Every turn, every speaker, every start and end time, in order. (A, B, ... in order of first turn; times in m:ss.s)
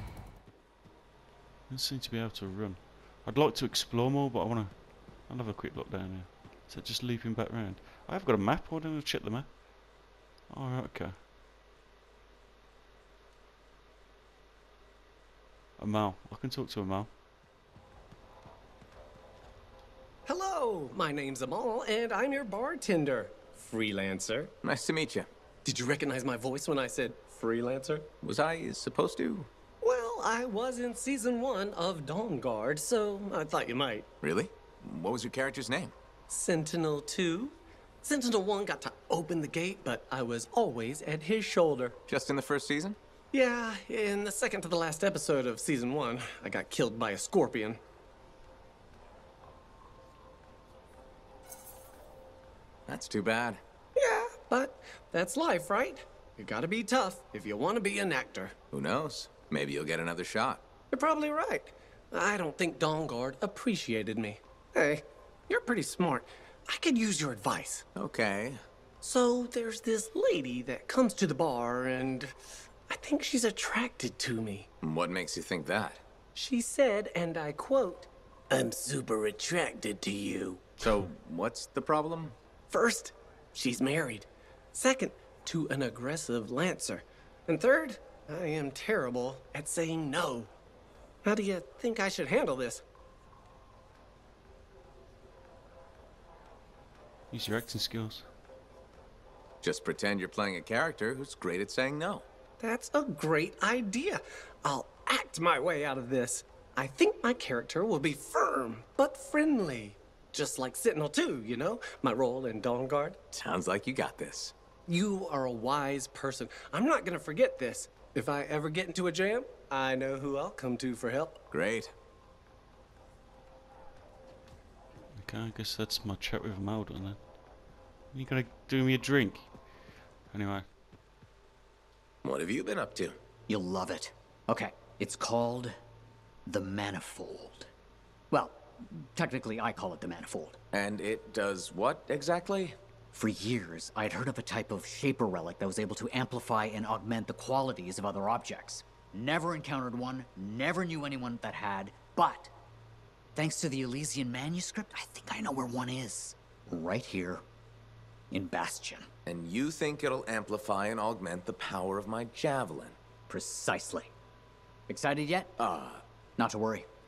0:01.7-0:09.7 A
0:10.5-0:11.2 A
0:15.8-0:17.1 A
0:20.2-0:24.5 B
0:24.6-0:25.3 C
0:25.6-0:28.1 B
0:28.2-0:29.5 C
0:29.8-0:34.1 B
0:34.2-0:35.9 C
0:36.3-0:42.0 B
0:42.1-0:43.0 C
0:43.3-0:47.8 B
0:52.9-0:53.6 C
0:54.0-0:58.5 B
0:58.7-1:00.7 C
1:00.9-1:07.8 B
1:07.9-1:08.6 C
1:09.0-1:12.4 B
1:12.9-1:14.7 B
1:14.8-1:16.0 C
1:16.3-1:20.8 B
1:20.8-1:22.4 C
1:22.7-1:30.5 B
1:31.2-1:32.8 B
1:37.3-1:38.2 A
1:39.6-1:42.2 C
1:42.6-1:53.2 B
1:53.3-1:54.5 C
1:54.9-2:01.4 B
2:01.5-2:01.9 C
2:05.2-2:07.3 A
2:08.1-2:09.5 A
2:10.3-2:10.7 A
2:12.2-2:13.2 C
2:13.5-2:15.8 D
2:16.4-2:17.7 D
2:18.3-2:20.6 D
2:20.7-2:22.8 C
2:23.1-2:32.5 D
2:33.3-2:37.4 D
2:38.3-2:39.1 D
2:39.2-2:43.0 C
2:43.3-2:44.1 D
2:44.9-2:45.6 D
2:45.6-2:46.0 C
2:46.4-2:46.9 D